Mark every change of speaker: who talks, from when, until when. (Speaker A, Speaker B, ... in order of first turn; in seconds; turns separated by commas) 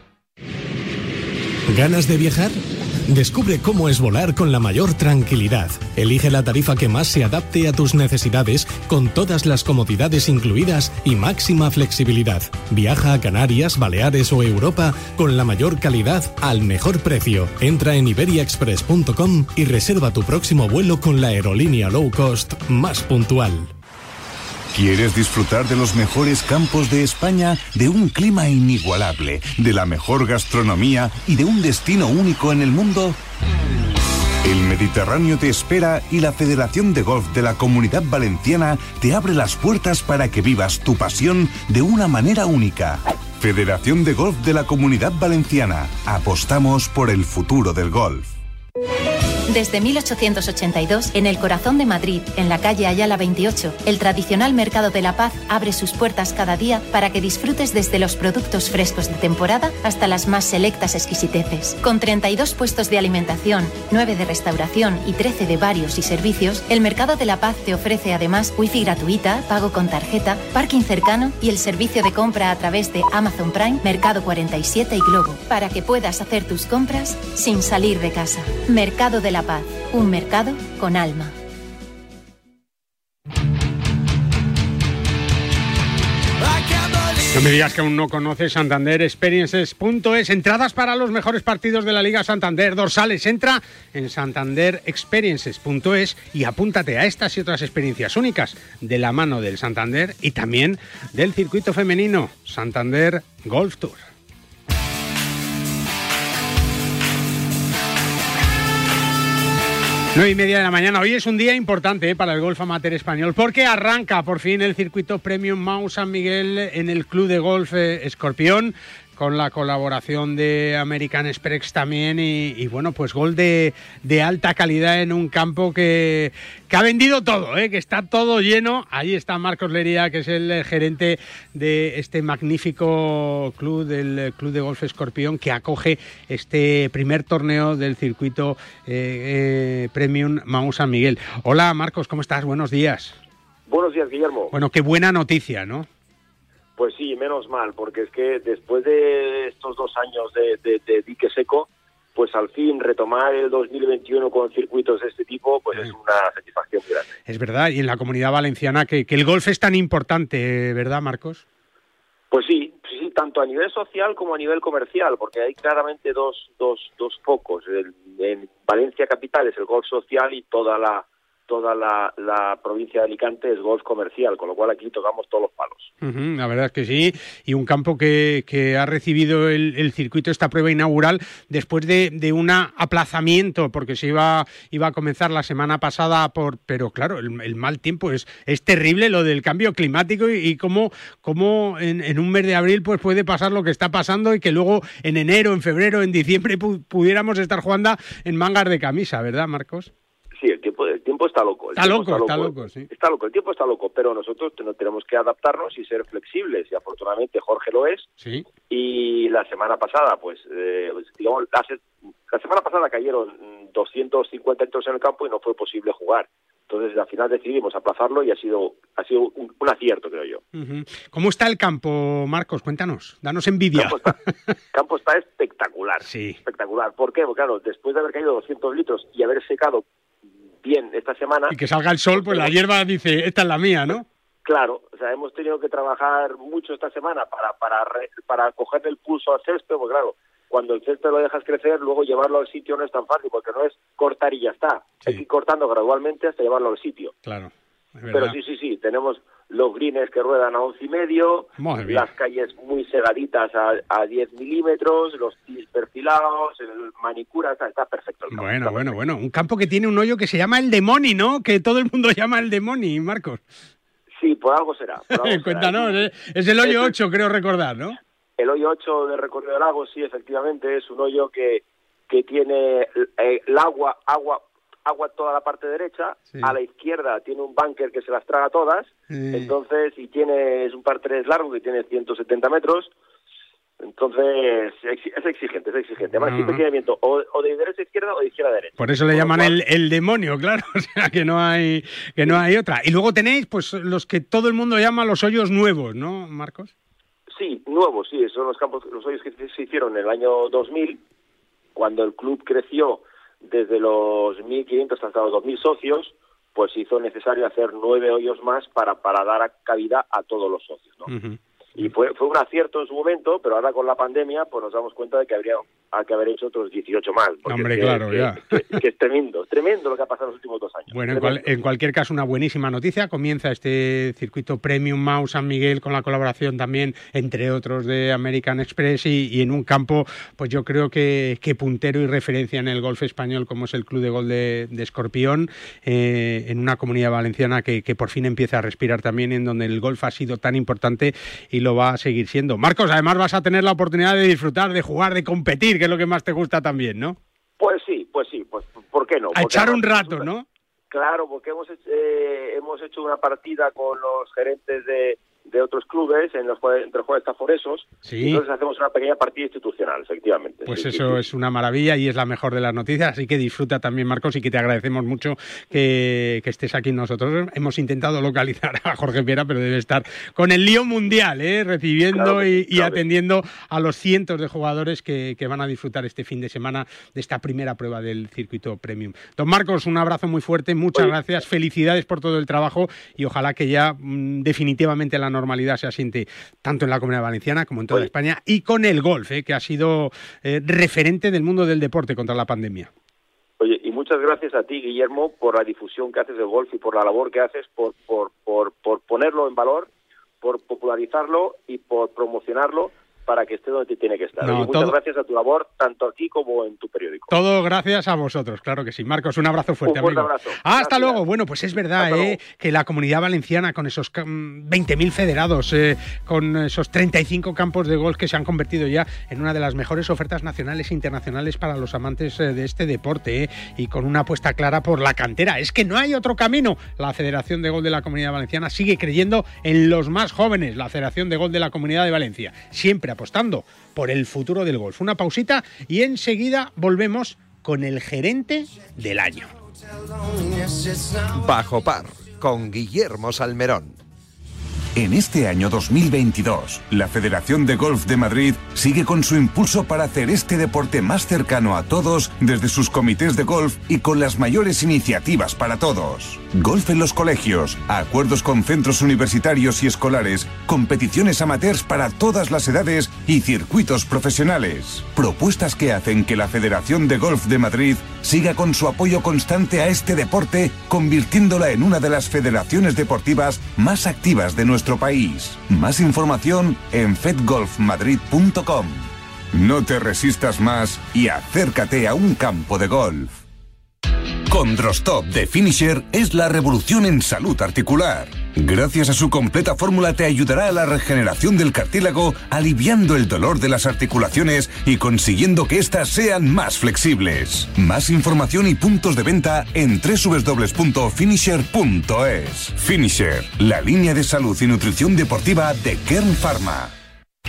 Speaker A: 1.7-23.7, Speaker B: 24.7-33.2, Speaker B: 34.4-48.3, Speaker C: 49.5-81.3, Speaker D: 87.3-104.1, Speaker D: 110.1-143.2, Speaker E: 143.7-144.5, Speaker D: 144.5-145.9, Speaker E: 146.8-157.0, Speaker D: 157.3-161.4, Speaker E: 162.3-175.9, Speaker D: 176.0-199.9, Speaker E: 200.4-208.0, Speaker D: 201.8-202.9, Speaker D: 208.2-208.4, Speaker E: 208.7-211.8, Speaker E: 212.3-220.4, Speaker D: 220.5-224.2, Speaker E: 223.7-224.1, Speaker E: 224.7-229.8, Speaker D: 226.0-226.4, Speaker E: 230.6-231.5, Speaker D: 231.5-234.0, Speaker E: 232.2-232.5, Speaker E: 234.4-247.1, Speaker D: 247.2-248.4, Speaker E: 248.1-258.9, Speaker D: 251.6-252.1, Speaker D: 258.3-263.4, Speaker E: 264.2-266.1, Speaker D: 265.1-268.0, Speaker E: 266.6-266.9, Speaker E: 268.4-282.9, Speaker D: 279.1-279.5, Speaker E: 283.8-289.5, Speaker D: 286.1-286.6, Speaker D: 288.8-296.7, Speaker E: 297.3-301.0, Speaker E: 301.8-311.1, Speaker D: 311.1-311.9, Speaker E: 311.8-321.4, Speaker D: 317.4-318.4, Speaker D: 320.9-347.2, Speaker E: 347.6-350.3, Speaker D: 349.3-350.4, Speaker E: 350.9-361.2, Speaker D: 358.0-358.4, Speaker D: 360.6-392.9, Speaker E: 372.1-373.0, Speaker E: 393.6-399.9, Speaker E: 400.4-407.3, Speaker D: 404.4-405.0, Speaker D: 407.3-439.5, Speaker E: 409.8-411.2, Speaker E: 412.0-412.4, Speaker F: 441.2-443.9, Speaker B: 444.9-483.3, Speaker B: 484.5-506.9